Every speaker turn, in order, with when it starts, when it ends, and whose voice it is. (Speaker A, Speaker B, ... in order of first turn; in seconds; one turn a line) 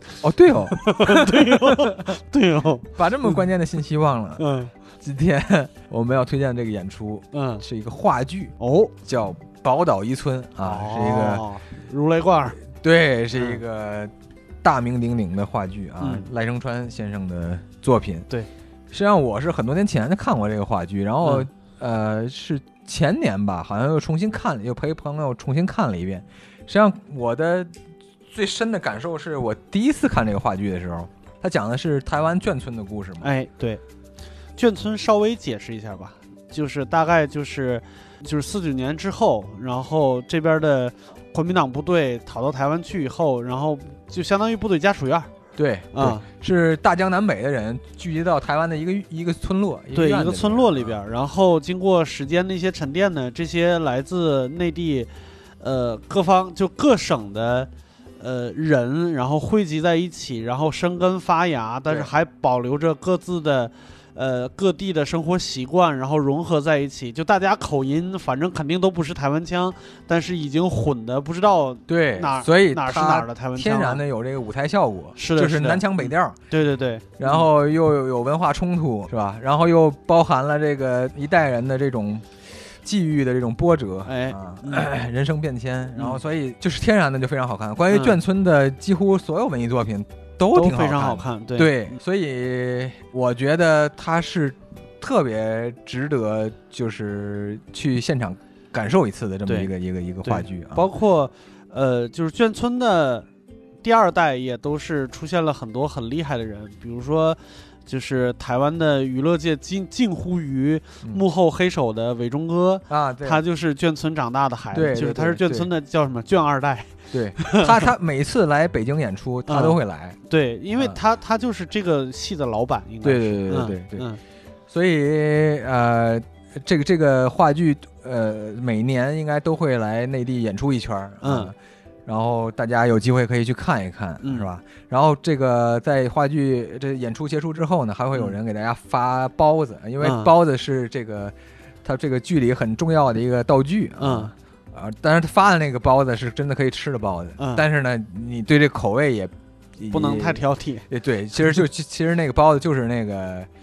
Speaker A: 0.2-2.1
Speaker B: 0.8-3.4
Speaker A: 3.0-4.5
Speaker B: 4.4-4.7
Speaker A: 5.0-11.4
Speaker B: 7.3-7.6
Speaker B: 8.6-8.9
Speaker B: 10.6-12.6
Speaker A: 12.8-14.1
Speaker B: 13.3-13.6
Speaker A: 14.6-18.3
Speaker B: 16.0-16.3
Speaker A: 18.9-27.7
Speaker A: 28.3-33.3
Speaker B: 33.2-33.8
Speaker B: 34.6-45.3
Speaker A: 45.6-51.0
Speaker B: 45.9-46.2
Speaker B: 49.9-74.0
Speaker A: 61.9-62.1
Speaker A: 71.9-76.3
Speaker B: 75.2-77.5
Speaker A: 77.2-100.9
Speaker B: 84.0-84.9
Speaker B: 86.0-86.2
Speaker B: 87.9-88.2
Speaker B: 90.5-92.0
Speaker B: 100.2-103.3
Speaker B: 103.8-117.9
Speaker A: 112.9-113.4
Speaker A: 114.7-115.7
Speaker A: 117.1-120.2
Speaker B: 119.5-124.2
Speaker A: 123.0-124.1
Speaker A: 124.7-131.5
Speaker B: 131.2-131.5
Speaker A: 132.1-153.5
Speaker B: 134.2-134.5
Speaker B: 140.0-140.3
Speaker B: 144.0-144.3
Speaker B: 147.4-147.6
Speaker B: 149.9-150.9